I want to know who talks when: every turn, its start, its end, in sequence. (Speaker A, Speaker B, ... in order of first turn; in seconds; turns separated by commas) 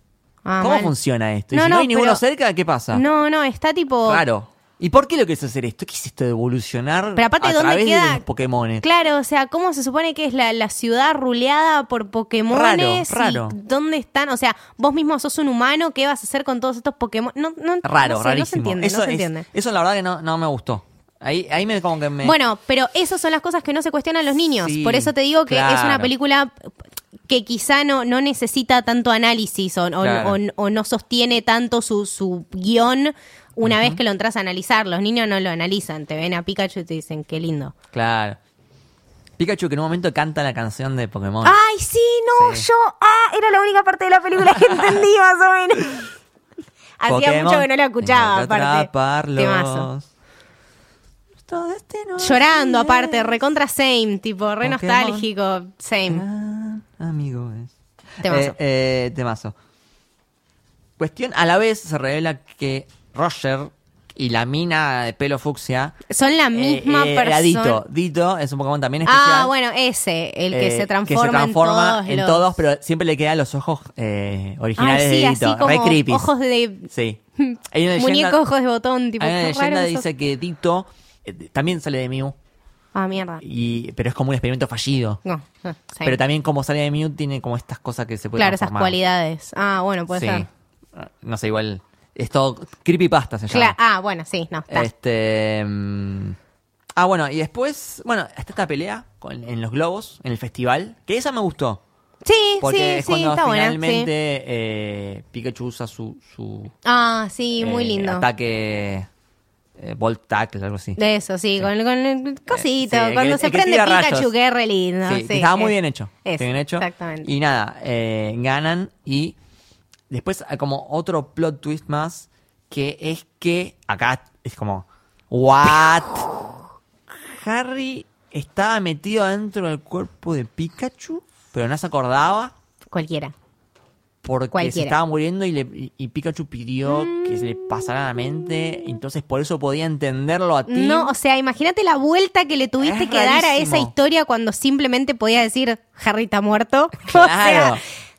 Speaker A: 0.4-0.9, Speaker B: 0.6-3.0, Speaker A: 1.5-2.2, Speaker A: 2.9-4.2, Speaker B: 4.0-8.8, Speaker A: 7.2-8.2, Speaker A: 8.8-19.4, Speaker B: 12.5-13.6, Speaker B: 17.8-22.4, Speaker A: 22.2-26.5, Speaker B: 24.6-26.1, Speaker A: 27.3-37.7, Speaker B: 30.0-30.4, Speaker B: 33.6-34.0, Speaker B: 37.9-38.4, Speaker B: 39.4-41.6, Speaker A: 41.4-46.1, Speaker B: 42.3-42.7, Speaker B: 44.4-45.0, Speaker A: 47.0-49.9, Speaker B: 47.1-50.1, Speaker B: 51.4-53.4, Speaker A: 52.2-56.2, Speaker B: 54.6-55.3, Speaker B: 56.1-59.5, Speaker A: 58.2-58.5, Speaker B: 61.0-66.0, Speaker A: 66.1-67.8, Speaker B: 66.5-69.5, Speaker A: 69.0-72.4, Speaker B: 70.5-76.3, Speaker A: 74.8-80.0, Speaker B: 76.9-78.4, Speaker B: 79.2-82.3, Speaker A: 82.9-83.4, Speaker B: 83.4-85.2, Speaker A: 85.2-86.2, Speaker B: 86.0-89.0, Speaker A: 88.4-90.5, Speaker B: 90.1-93.8, Speaker A: 93.5-94.9, Speaker B: 94.7-96.3, Speaker B: 97.0-101.8, Speaker A: 102.2-104.1, Speaker B: 102.6-106.7, Speaker A: 106.8-108.2, Speaker B: 107.6-109.1, Speaker B: 109.8-111.0, Speaker A: 111.0-115.7, Speaker B: 112.5-114.3, Speaker B: 115.0-119.3, Speaker A: 116.2-117.3, Speaker B: 120.1-126.3, Speaker B: 127.1-132.5, Speaker A: 132.9-133.3, Speaker B: 134.2-141.1, Speaker A: 134.5-134.9, Speaker A: 140.7-147.8, Speaker B: 142.8-143.9, Speaker B: 147.0-147.8